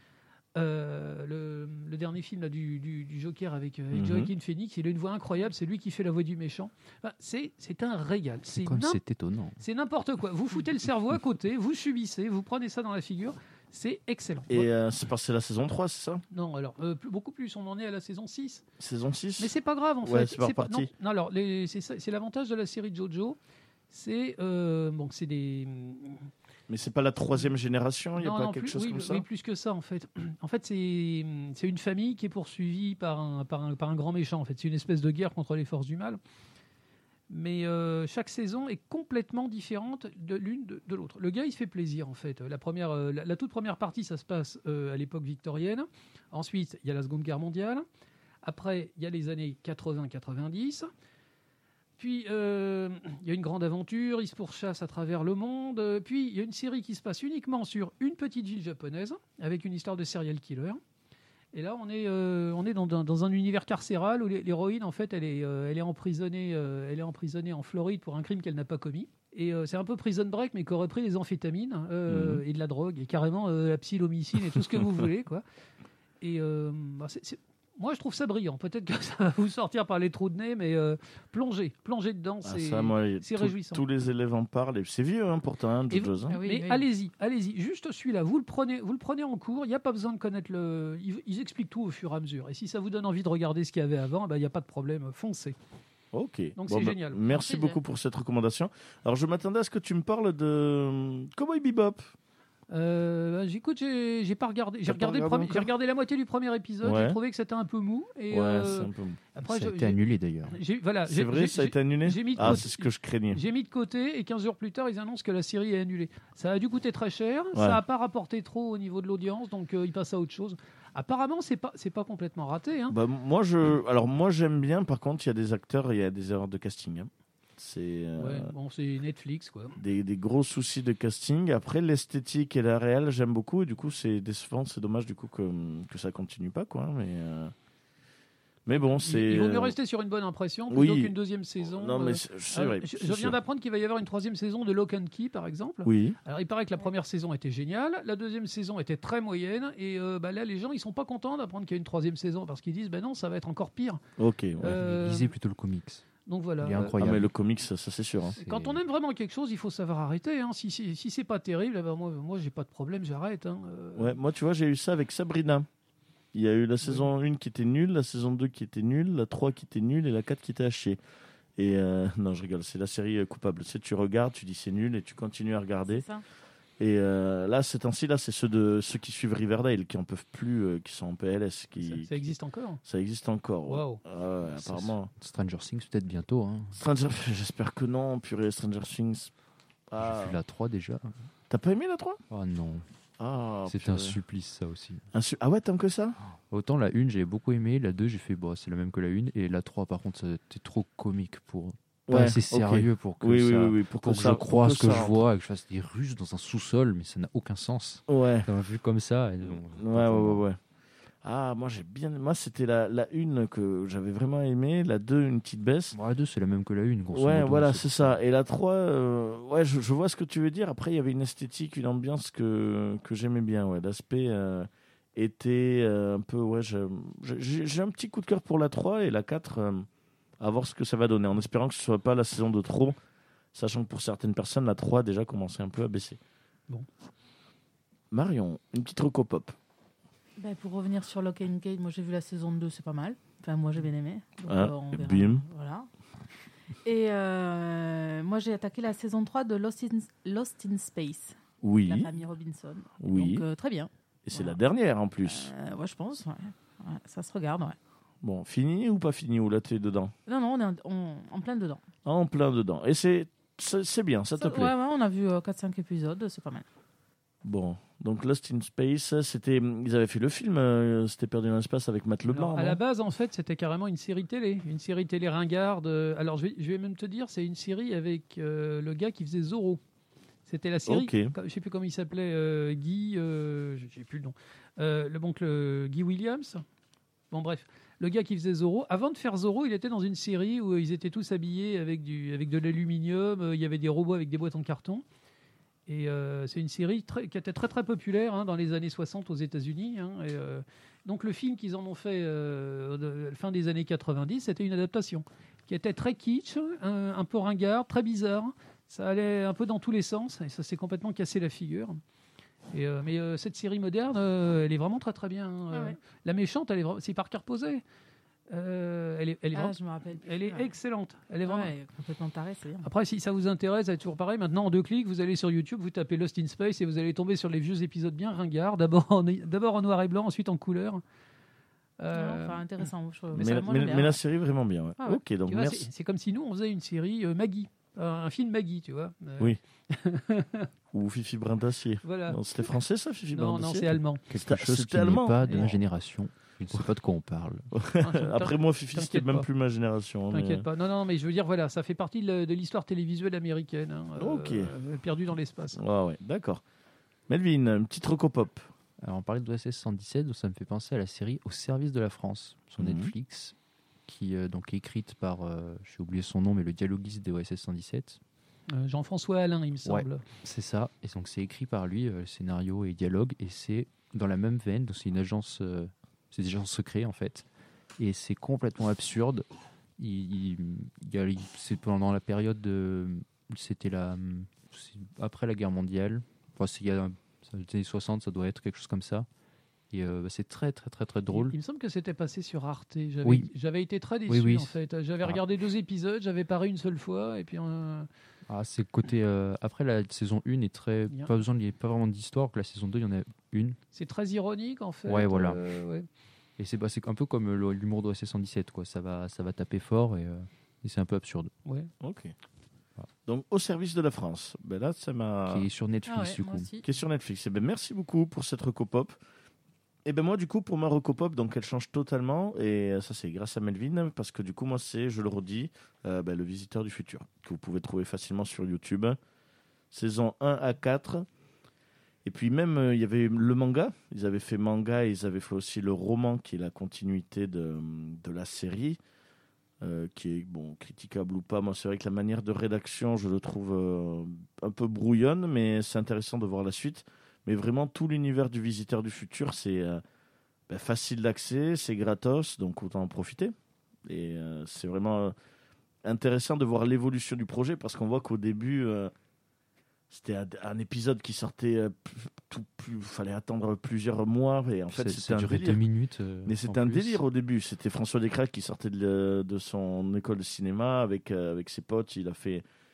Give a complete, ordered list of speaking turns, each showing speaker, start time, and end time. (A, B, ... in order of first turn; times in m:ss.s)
0:00.6-0:09.0 A
0:03.9-0:04.3 B
0:08.6-0:09.6 C
0:09.6-0:14.7 A
0:14.5-0:16.2 B
0:16.3-0:18.6 A
0:18.8-0:20.9 B
0:19.4-0:23.4 A
0:23.9-0:26.3 A
0:26.7-0:29.3 B
0:28.2-0:36.2 A
0:37.3-0:47.8 A
0:48.4-0:50.9 A
0:52.0-1:00.8 A
1:01.5-1:15.4 A
1:12.1-1:12.4 B
1:16.2-1:23.8 A
1:22.4-1:26.4 B
1:25.9-1:35.6 A
1:26.3-1:26.8 D
1:36.1-1:42.1 B
1:36.6-1:37.2 A
1:37.3-1:37.8 D
1:42.7-2:03.0 A
1:44.9-1:45.7 B
1:46.8-1:47.2 B
1:48.3-1:49.2 B
1:49.4-1:50.6 C
1:51.1-1:53.4 B
1:57.5-1:57.8 B
2:02.9-2:08.5 B
2:08.2-2:09.8 A
2:09.8-2:17.5 B
2:18.7-2:19.8 B
2:19.0-2:34.0 A
2:20.7-2:23.4 B
2:25.8-2:26.2 B
2:34.2-2:34.8 B
2:34.6-2:35.3 A
2:34.7-2:36.0 C
2:36.3-2:37.0 A
2:36.6-2:37.3 C
2:37.0-2:38.4 B
2:38.3-2:38.8 C
2:38.4-2:44.2 A
2:44.0-2:45.7 B
2:46.3-2:51.0 B
2:51.6-2:56.0 B
2:55.9-2:56.2 D
2:56.8-3:02.3 B
3:01.8-3:02.8 A
3:02.8-3:05.1 B
3:03.7-3:04.0 A
3:04.6-3:06.8 C
3:06.7-3:09.3 B
3:09.9-3:10.4 B
3:10.0-3:11.2 C
3:11.5-3:12.2 B
3:12.3-3:12.9 C
3:13.2-3:14.2 B
3:13.7-3:15.0 C
3:15.1-3:16.2 B
3:16.5-3:30.4 C
3:22.1-3:25.2 B
3:28.1-3:28.5 B
3:29.4-3:30.6 B
3:31.2-3:36.0 B
3:35.9-3:38.2 C
3:37.1-3:49.9 B
3:50.4-3:53.0 B
3:53.5-3:56.2 B
3:58.1-3:59.6 B
4:00.4-4:05.9 D
4:04.5-4:05.4 B
4:06.8-4:14.6 D
4:11.6-4:12.1 B
4:13.0-4:13.4 B
4:14.3-4:15.5 B
4:15.2-4:17.8 D
4:18.2-4:20.1 B
4:20.3-4:21.8 D
4:22.1-4:24.7 B
4:24.4-4:26.6 D
4:27.4-4:32.8 B
4:32.3-4:39.8 A
4:40.5-4:46.6 A
4:40.9-4:41.3 B
4:47.3-4:55.0 A
4:55.9-5:12.0 A
5:12.7-5:17.8 A
5:15.7-5:16.0 D
5:18.5-5:21.7 A
5:19.5-5:20.7 D
5:21.4-5:22.9 D
5:22.8-5:31.0 A
5:32.0-5:32.8 A
5:32.1-5:34.2 D
5:33.3-5:35.9 B
5:35.5-5:40.7 A
5:40.9-5:45.8 B
5:42.0-5:42.4 A
5:43.3-5:44.2 A
5:44.3-5:47.7 C
5:45.4-5:45.7 A
5:47.7-5:50.7 B
5:48.0-5:49.5 A
5:50.3-5:55.8 A
5:54.2-5:54.7 B
5:55.8-5:56.6 B
5:57.3-5:58.6 B
5:59.0-6:03.6 C
6:02.8-6:03.1 B
6:04.1-6:08.2 C
6:08.7-6:10.2 A
6:09.8-6:17.5 C
6:18.0-6:19.5 C
6:20.0-6:29.3 C
6:29.9-6:31.6 C
6:31.3-6:38.1 A
6:33.2-6:33.5 C
6:34.3-6:35.4 C
6:38.5-6:43.8 C
6:43.9-6:46.1 A
6:45.1-6:45.6 C
6:46.6-6:51.5 C
6:52.0-6:52.3 B
6:53.3-6:55.7 B
6:55.5-6:56.7 C
6:56.1-6:56.8 D
6:56.8-6:59.2 B
7:00.1-7:09.2 B
7:09.9-7:11.3 B
7:12.2-7:19.0 B
7:19.8-7:30.0 B
7:30.7-7:33.5 B
7:34.1-7:35.3 B
7:36.0-7:39.1 B
7:40.1-7:45.8 B
7:44.9-7:47.2 C
7:46.4-7:52.6 B